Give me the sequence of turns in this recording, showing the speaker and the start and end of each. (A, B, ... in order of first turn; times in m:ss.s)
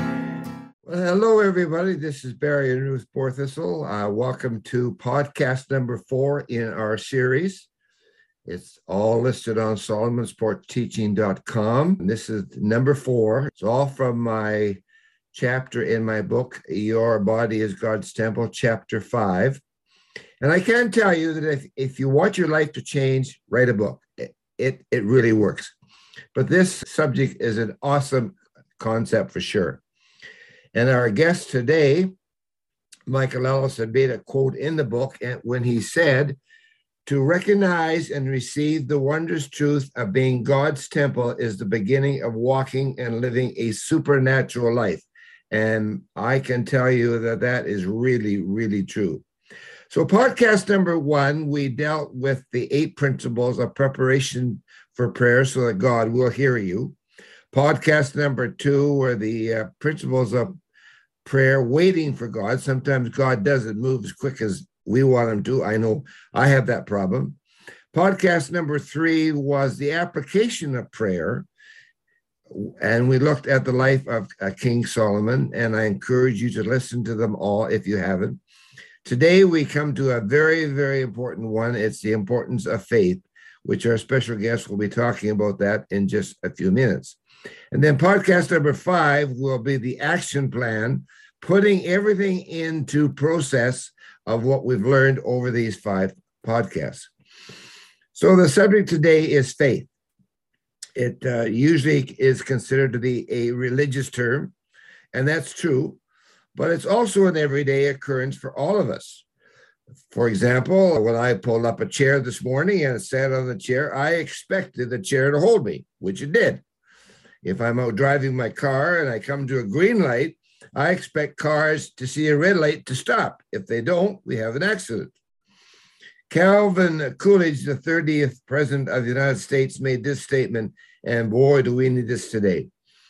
0:00.8-0:07.7 A
0:08.4-0:14.8 A
0:15.3-0:19.6 A
0:20.4-0:25.7 A
0:26.3-0:29.8 A
0:30.7-0:32.1 A
0:33.1-0:36.4 A
0:37.0-0:49.2 A
0:49.9-0:57.0 A
0:57.5-1:00.6 A
1:01.2-1:07.4 A
1:07.9-1:11.5 A
1:12.5-1:18.4 A
1:19.0-1:27.2 A
1:27.7-1:37.1 A
1:38.1-1:39.9 A
1:41.0-1:44.5 A
1:45.1-1:46.0 A
1:46.5-1:49.2 A
1:50.1-1:56.6 A
1:57.4-2:05.1 A
2:06.3-2:12.7 A